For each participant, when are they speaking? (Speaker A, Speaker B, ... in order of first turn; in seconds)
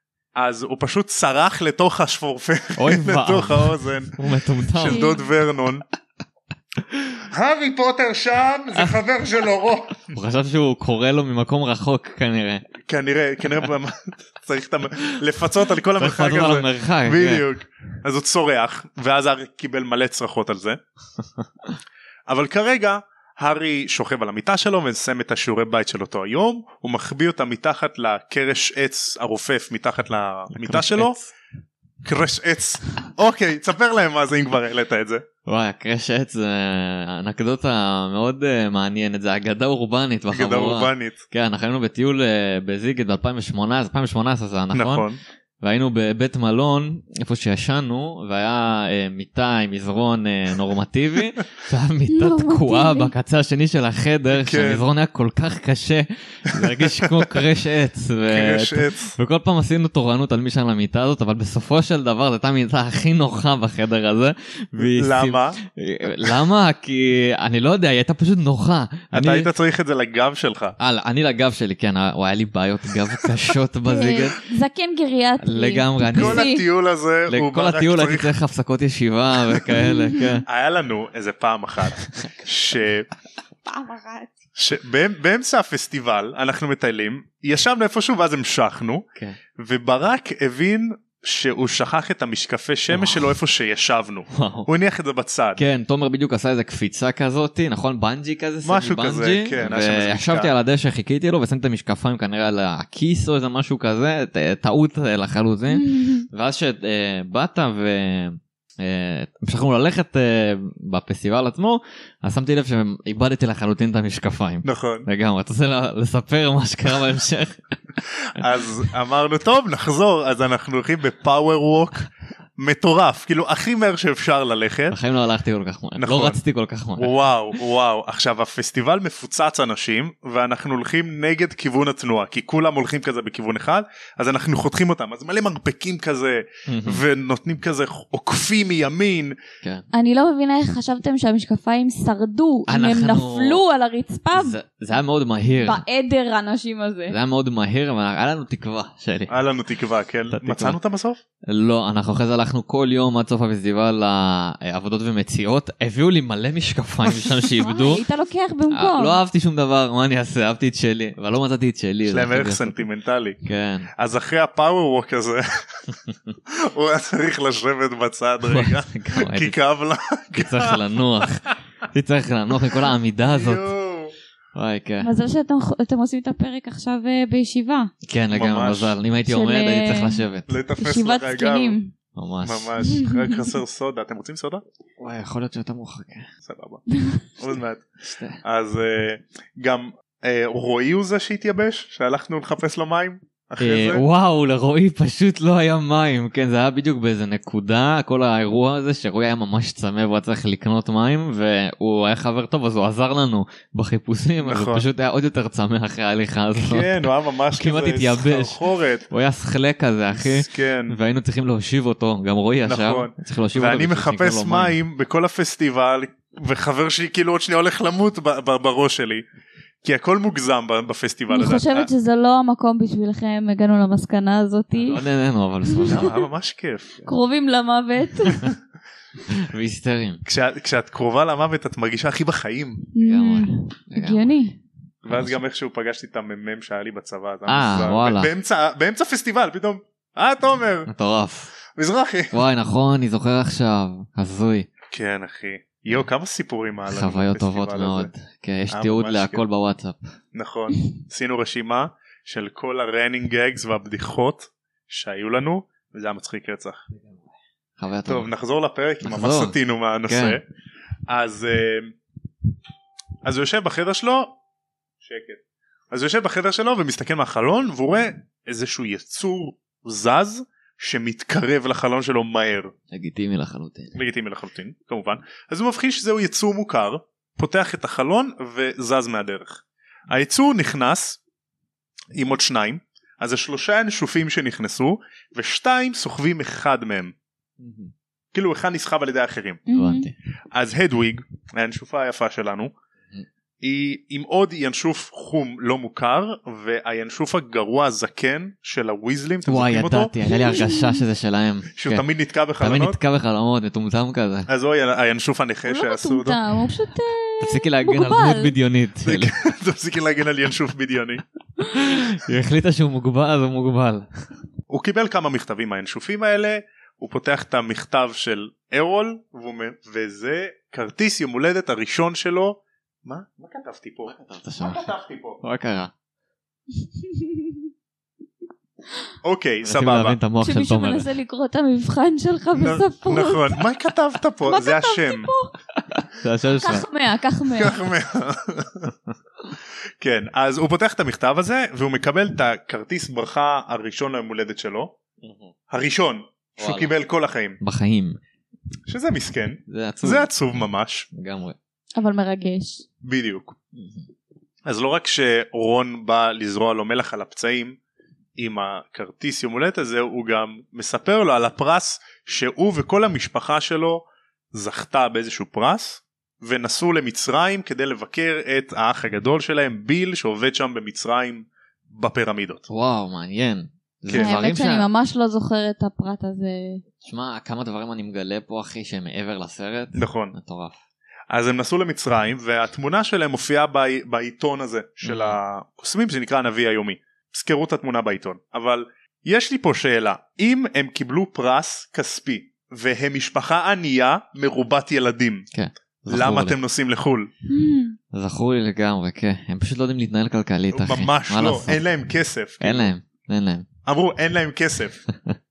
Speaker A: 0.3-5.8, 7.3-10.1, 12.8-20.8, 22.3-31.2, 32.0-35.2, 40.3-41.2, 44.7-45.2, 54.3-54.8, 56.5-57.3, 58.3-59.2, 64.8-65.6, 69.1-70.8, 76.1-78.3, 80.5-83.1, 84.5-89.0, 89.6-95.6, 98.6-100.5, 114.6-115.1, 118.3-125.0, 126.0-126.4, 127.0-139.3, 149.3-151.2, 162.1-163.4, 164.0-165.8, 166.5-171.3, 173.2-174.1, 178.3-179.0, 180.5-181.8, 182.4-184.6, 186.4-186.8, 187.4-187.8, 188.4-194.0, 204.4-204.8, 206.5-209.1, 210.1-211.0, 212.7-219.2, 219.8-221.9, 225.8-227.0, 230.2-232.9, 235.0-240.9, 241.7-242.3, 244.9-248.1, 248.7-249.4, 250.3-256.8, 258.1-260.4, 261.1-261.9, 263.2-264.4, 265.0-265.4, 265.9-272.7, 273.9-281.2, 282.1-287.1, 288.3-289.6, 290.5-292.7, 293.6-300.1, 301.8-303.0, 304.5-306.4, 309.0-311.2, 314.7-325.4, 329.2-330.2, 332.6-335.3, 337.5-338.9, 340.0-344.9, 345.7-347.6, 348.9-351.1, 353.0-353.5, 354.6-357.8, 358.4-372.7, 374.1-374.3, 379.9-380.3, 381.3-395.5, 396.1-397.3, 400.7-402.9, 403.9-405.0
Speaker B: 2.8-5.2, 6.9-7.2, 8.7-9.0, 10.0-12.7, 16.0-17.4, 30.5-31.3, 35.5-45.1, 45.6-69.5, 70.8-74.4, 75.4-76.5, 77.3-80.4, 92.9-93.3, 94.3-94.7, 95.5-117.7, 124.9-127.6, 136.7-137.0, 139.6-139.9, 142.7-143.6, 144.3-145.8, 147.1-149.3, 150.3-150.8, 151.5-158.0, 158.7-162.8, 163.4-163.9, 168.4-169.6, 170.3-173.7, 174.5-175.1, 178.0-180.5, 182.1-182.7, 185.0-186.3, 188.0-188.4, 193.6-214.8, 224.8-226.1, 229.2-230.2, 233.0-234.3, 235.1-235.4, 237.5-238.3, 240.9-241.5, 242.3-244.7, 246.9-250.0, 257.8-258.3, 259.0-260.4, 272.9-274.0, 287.6-287.9, 289.7-290.1, 299.4-302.1, 302.6-304.5, 307.4-309.3, 311.6-314.2, 324.1-325.9, 329.6-331.1, 335.9-336.9, 345.2-345.5, 346.6-346.9, 347.6-348.2, 349.7-350.3, 351.1-351.6, 353.7-354.1, 372.7-374.9, 377.0-380.8, 385.0-385.4, 395.5-396.6, 398.1-401.8, 402.6-403.7
Speaker C: 4.8-5.2, 52.1-53.1, 73.8-76.6, 79.8-80.3, 83.6-84.3, 105.7-106.3, 139.9-144.6, 145.6-147.2, 157.6-159.2, 175.0-177.9, 179.2-180.2, 180.8-181.9, 182.8-183.5, 186.9-187.2, 221.3-225.0, 225.7-226.1, 227.0-228.5, 232.9-234.6, 289.7-290.1, 300.3-301.0, 305.7-308.5, 327.0-327.6, 330.4-333.6, 334.4-335.5, 336.6-337.8, 351.9-352.8, 374.1-376.8, 397.5-398.0